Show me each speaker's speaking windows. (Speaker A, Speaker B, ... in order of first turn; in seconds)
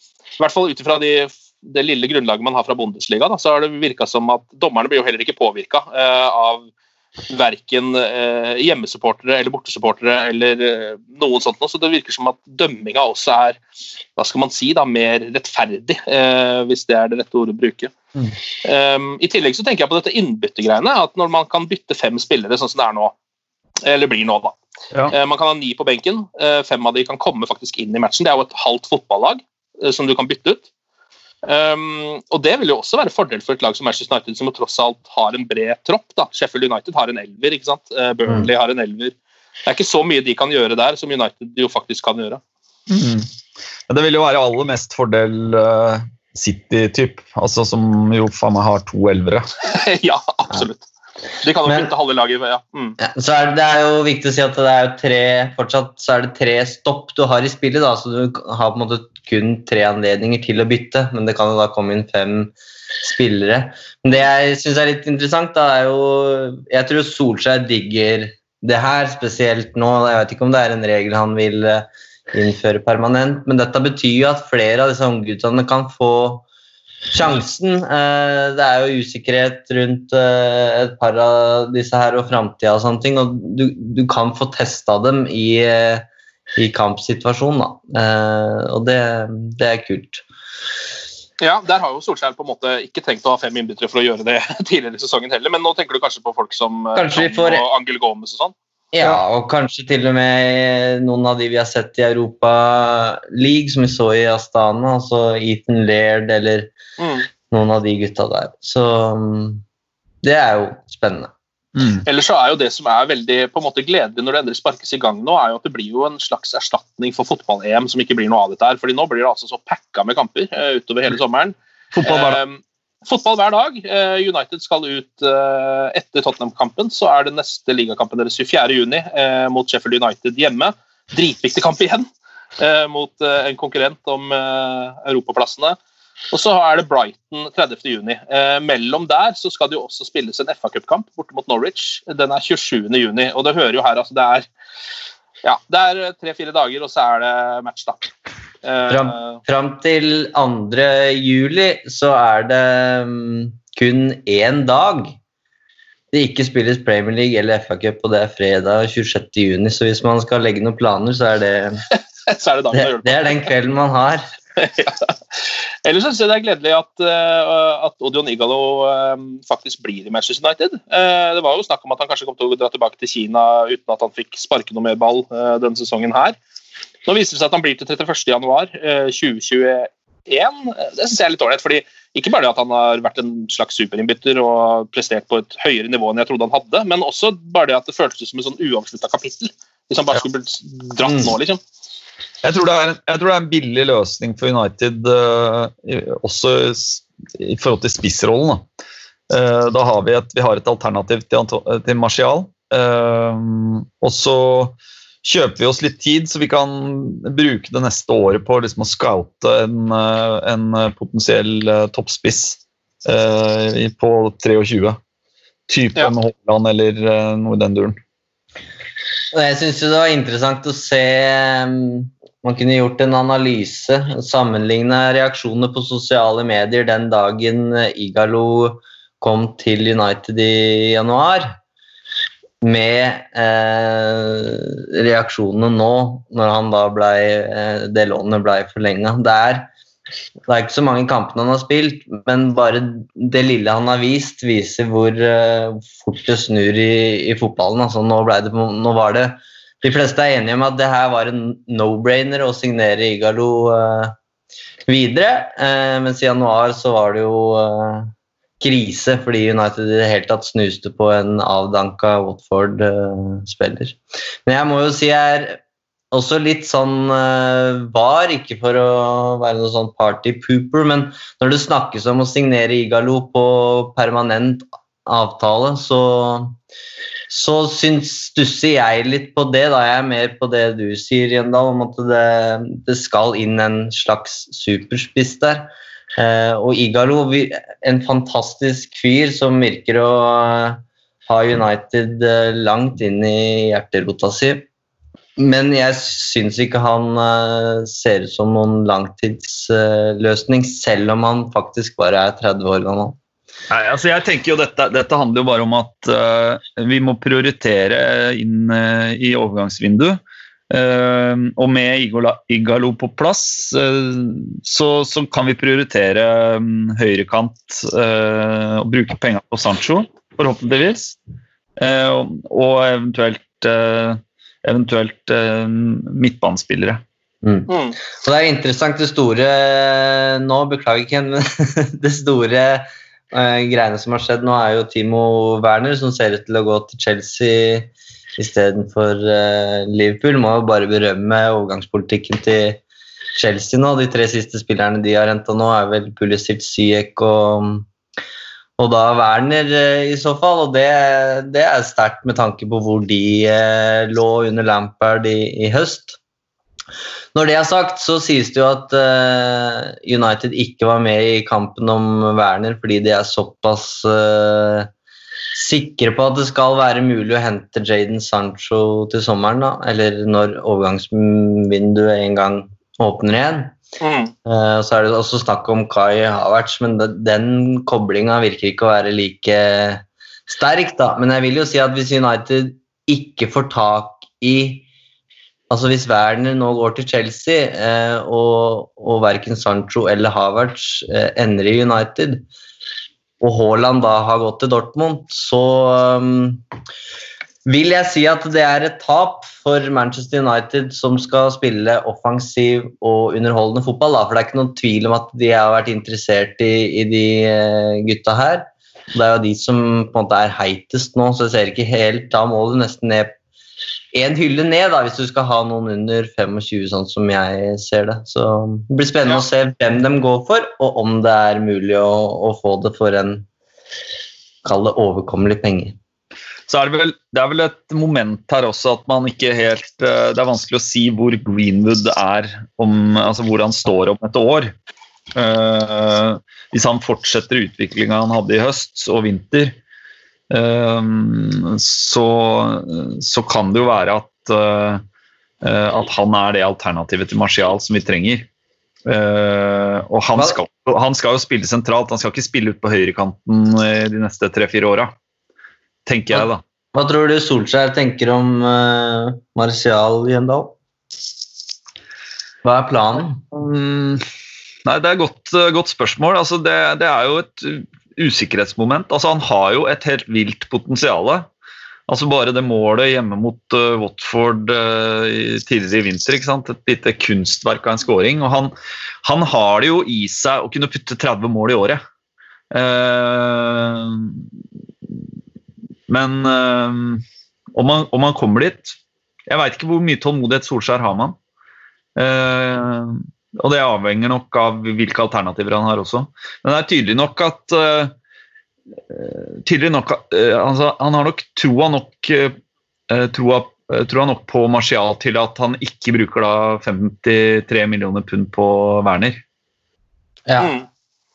Speaker A: 0.4-6.7, 7.3-13.6, 14.2-17.9, 18.6-23.1, 23.8-24.6, 25.1-30.7, 31.4-39.1, 39.6-42.4, 49.7-50.9, 51.4-53.0, 91.4-98.5, 107.0-107.3, 112.0-135.8, 136.3-144.5, 145.4-148.1, 148.6-149.4, 162.2-163.5, 164.6-165.2, 165.8-176.4, 177.1-191.6, 327.7-327.9, 374.0-374.3, 510.6-510.9
Speaker B: 42.9-43.3, 43.9-49.5, 111.8-112.0, 121.9-122.4, 192.4-198.6, 199.3-215.0, 215.7-218.0, 303.7-321.2, 321.8-327.0, 426.7-434.7, 435.3-439.8, 440.5-445.0, 445.6-448.5, 449.1-455.1, 456.1-456.6, 463.5-464.2, 464.8-471.5, 472.1-478.7, 479.2-482.0, 482.7-484.4, 486.1-487.2, 487.7-489.0, 489.5-491.4, 492.1-498.1, 499.1-502.5, 503.1-509.4
Speaker C: 53.0-76.4, 77.1-90.2, 97.0-97.6, 98.9-106.7, 107.5-109.6, 110.2-111.3, 148.9-155.2, 156.1-161.8, 162.7-164.3, 191.0-191.3, 219.3-231.6, 232.6-239.7, 240.5-254.1, 254.9-265.6, 266.1-276.6, 277.3-294.6, 295.4-303.1, 327.4-342.8, 343.4-347.9, 348.8-356.2, 357.3-364.9, 365.5-373.8, 374.4-384.9, 385.7-392.4, 393.4-396.6, 397.6-413.3, 414.1-423.4, 424.6-426.0, 456.3-460.7, 462.6-463.4, 510.5-510.7